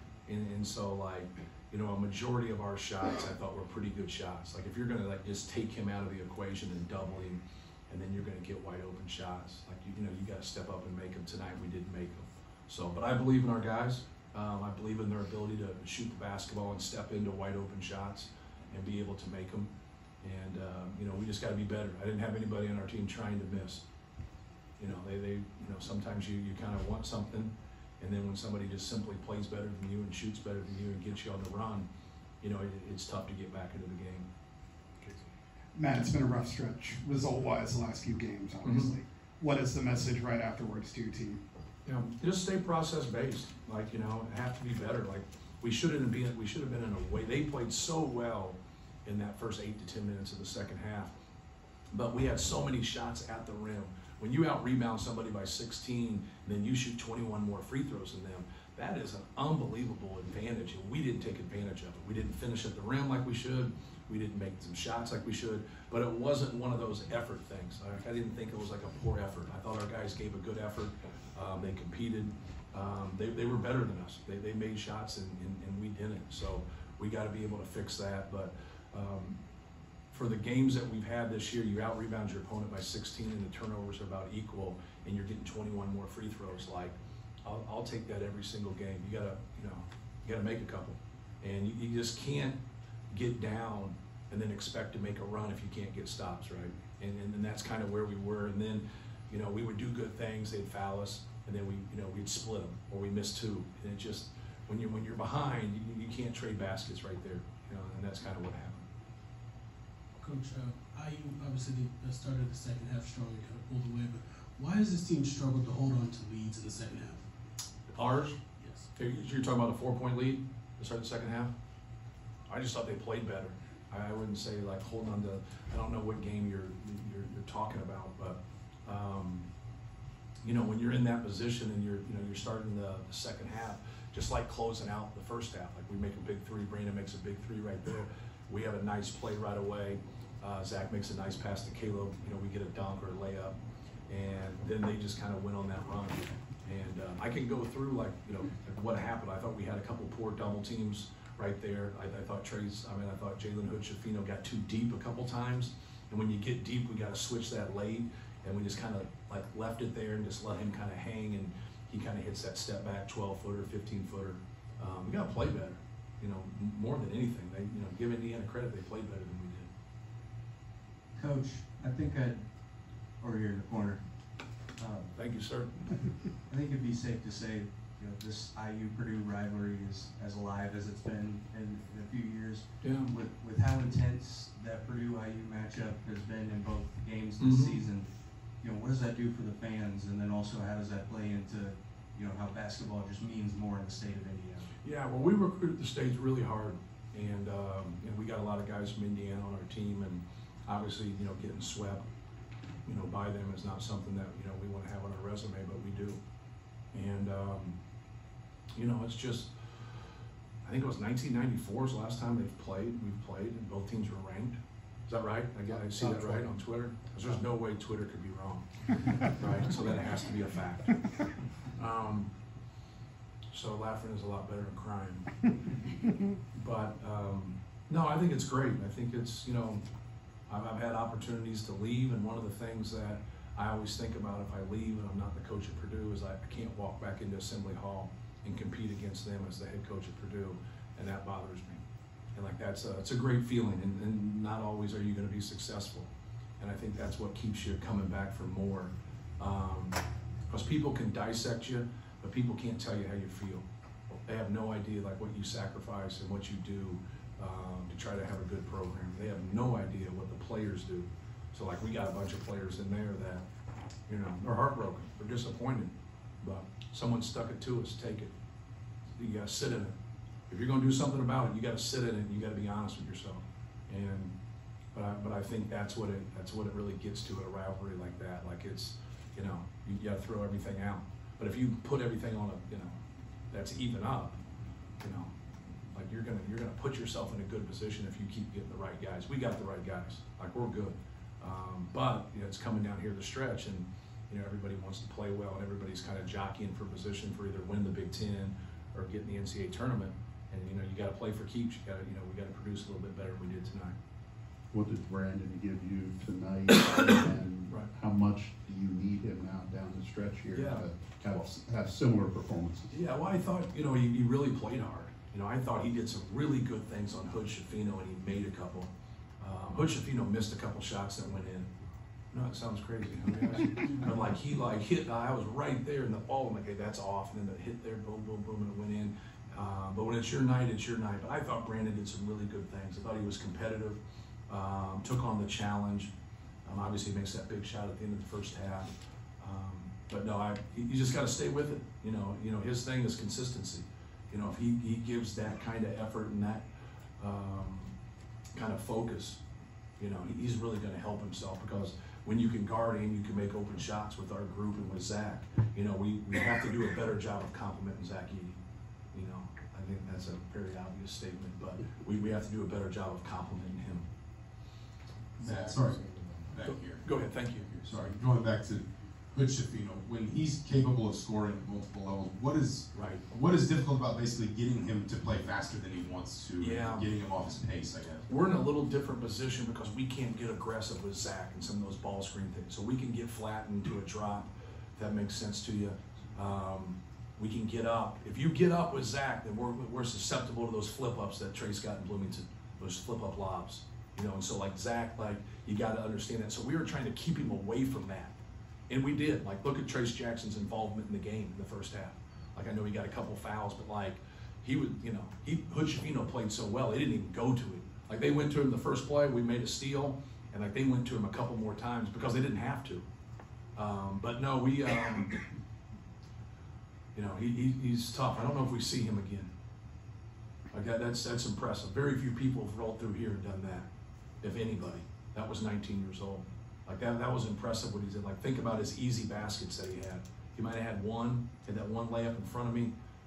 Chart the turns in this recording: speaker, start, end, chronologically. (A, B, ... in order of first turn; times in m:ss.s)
0:00.3-0:19.7 A
0:20.2-0:23.8 A
0:24.8-0:31.9 A
0:32.4-0:34.3 A
0:35.7-0:41.4 B
0:38.6-0:38.9 A
0:41.8-0:51.1 A
0:51.9-1:19.4 A
1:20.1-1:32.6 A
1:33.1-1:48.8 A
1:50.2-1:57.3 C
1:57.9-1:58.4 A
1:58.6-1:58.9 C
1:59.0-2:01.5 A
2:02.5-2:09.5 A
2:10.4-2:23.5 A
2:24.1-2:49.7 A
2:51.2-2:55.1 D
2:55.1-2:55.8 A
2:56.4-3:14.7 D
3:02.8-3:03.2 A
3:07.4-3:07.8 A
3:14.8-3:22.0 A
3:22.8-3:26.2 A
3:26.9-3:27.8 A
3:28.8-3:29.5 A
3:30.6-3:41.0 A
3:35.8-3:36.4 D
3:41.7-3:42.3 A
3:43.5-3:45.3 A
3:46.5-3:49.8 A
3:50.5-4:13.6 A
4:14.2-4:23.4 A
4:24.1-4:28.3 A
4:29.2-4:30.0 A
4:30.5-4:34.3 A
4:34.9-4:43.0 A
4:43.5-4:44.4 A
4:45.0-4:45.3 A
4:45.9-5:04.0 A
5:04.7-5:12.9 E
5:10.5-5:10.8 A
5:12.9-5:21.7 A
5:22.3-5:36.1 A
5:36.6-5:46.6 A
5:47.2-5:47.9 A
5:48.5-5:49.4 A
5:50.0-5:58.6 A
5:59.1-6:04.1 A
6:05.4-6:07.2 F
6:05.5-6:06.4 B
6:06.6-6:07.8 A
6:07.7-6:18.2 F
6:12.9-6:13.2 A
6:16.6-6:17.1 A
6:18.3-6:38.3 A
6:38.9-6:53.0 A
6:53.7-6:55.4 A
6:57.1-6:59.5 A
7:00.7-7:03.9 A
7:04.4-7:12.9 A